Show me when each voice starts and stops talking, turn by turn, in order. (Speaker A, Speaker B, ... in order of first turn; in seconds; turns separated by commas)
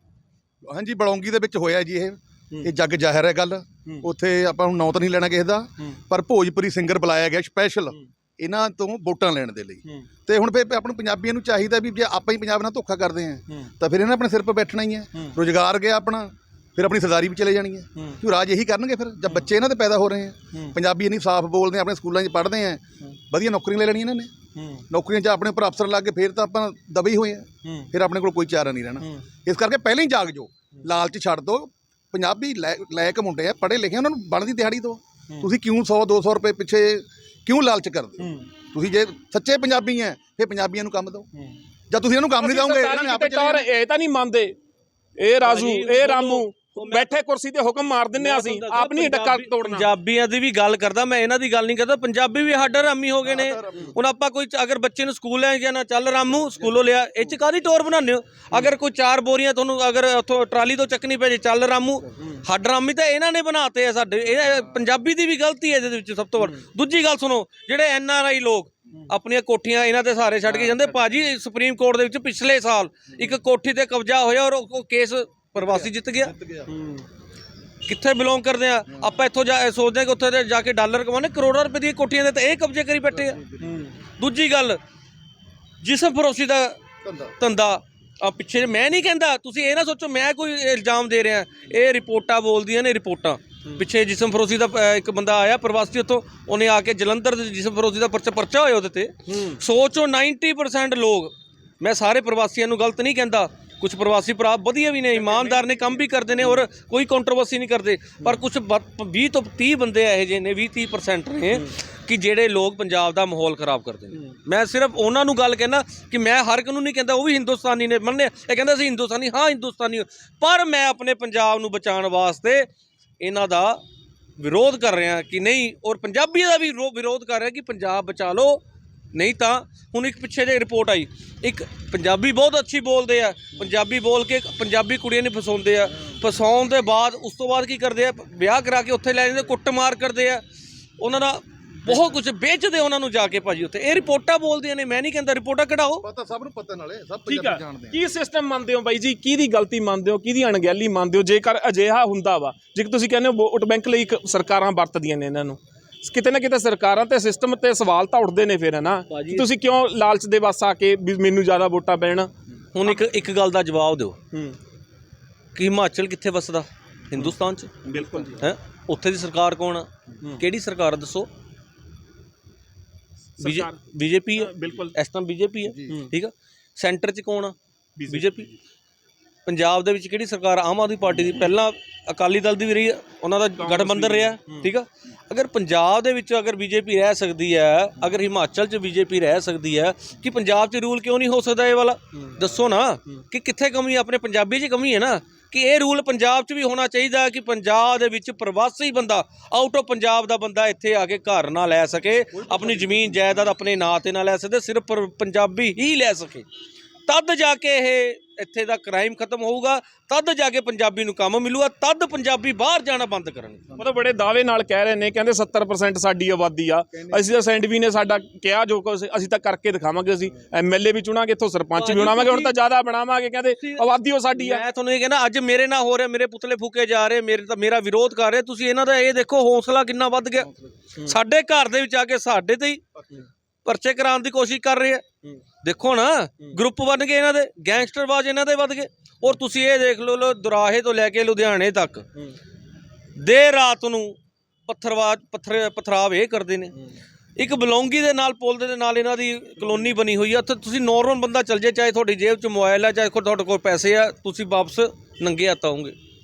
Speaker A: 0.6-24.3, Speaker B: 17.9-18.2, Speaker B: 24.6-24.8, Speaker A: 24.9-41.3, Speaker B: 27.6-27.9, Speaker B: 38.2-38.5, Speaker A: 41.9-43.7, Speaker B: 42.4-44.5, Speaker B: 45.2-49.9, Speaker C: 45.4-47.1, Speaker C: 48.1-76.3, Speaker A: 53.2-54.0, Speaker A: 75.5-76.7, Speaker B: 76.7-77.0, Speaker C: 77.8-83.4, Speaker A: 83.2-83.7, Speaker B: 83.6-83.9, Speaker C: 84.2-84.8, Speaker C: 85.8-122.7, Speaker A: 87.0-87.3, Speaker B: 99.3-99.6, Speaker B: 105.1-106.5, Speaker C: 123.2-123.8, Speaker C: 124.4-140.4, Speaker C: 141.0-146.0, Speaker A: 146.0-148.0, Speaker B: 147.3-162.3, Speaker C: 159.1-159.5, Speaker C: 162.7-164.2, Speaker B: 164.3-164.6, Speaker C: 165.5-171.3, Speaker B: 167.2-168.4, Speaker B: 173.4-173.8, Speaker C: 173.4-177.5, Speaker B: 174.3-174.9, Speaker B: 178.0-178.5, Speaker C: 178.1-178.5, Speaker C: 179.4-206.4, Speaker B: 183.6-184.7, Speaker A: 202.4-203.1, Speaker C: 207.1-213.7, Speaker B: 213.8-224.6, Speaker C: 221.8-222.5, Speaker C: 223.6-232.8, Speaker C: 233.6-235.1, Speaker C: 235.6-242.1, Speaker C: 243.2-246.8, Speaker C: 247.4-255.9